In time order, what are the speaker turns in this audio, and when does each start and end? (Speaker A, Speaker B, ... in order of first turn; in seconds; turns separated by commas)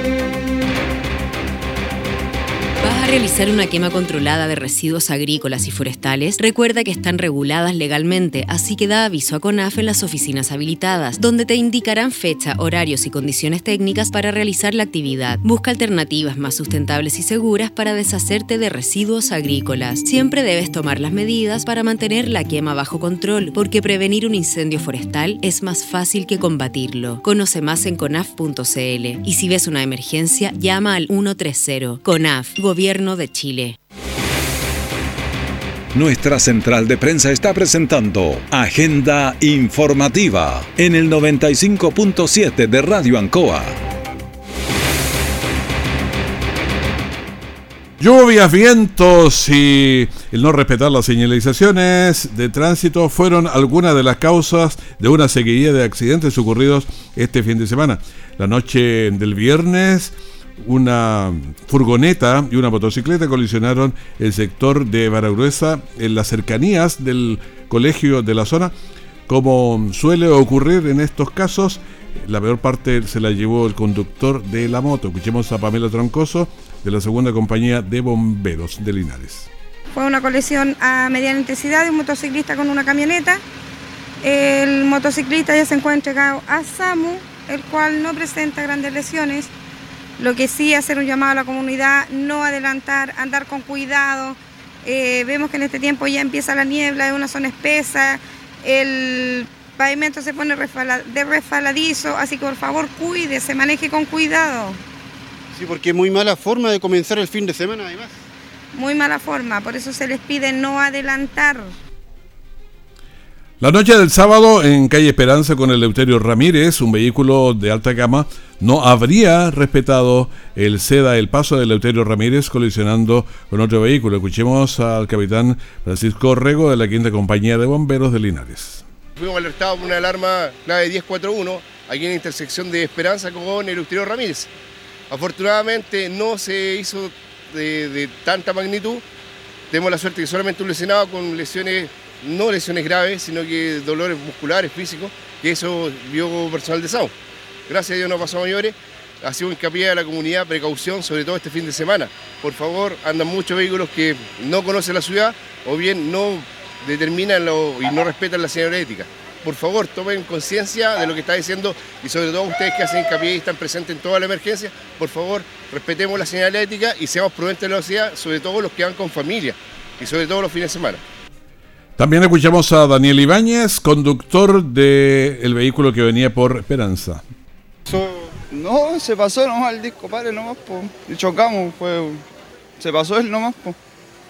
Speaker A: 2.8-33.8, Speaker B: 35.9-43.8, Speaker C: 48.0-68.7, Speaker C: 69.3-79.5, Speaker D: 79.9-83.4, Speaker D: 84.2-89.5, Speaker D: 90.2-104.8, Speaker E: 105.5-108.2, Speaker D: 108.7-111.8, Speaker C: 113.6-128.8, Speaker F: 129.2-134.5, Speaker F: 135.1-139.0, Speaker F: 139.7-147.1, Speaker F: 147.7-171.0, Speaker C: 172.0-177.2, Speaker E: 177.9-178.3, Speaker G: 178.5-182.2, Speaker G: 182.8-183.8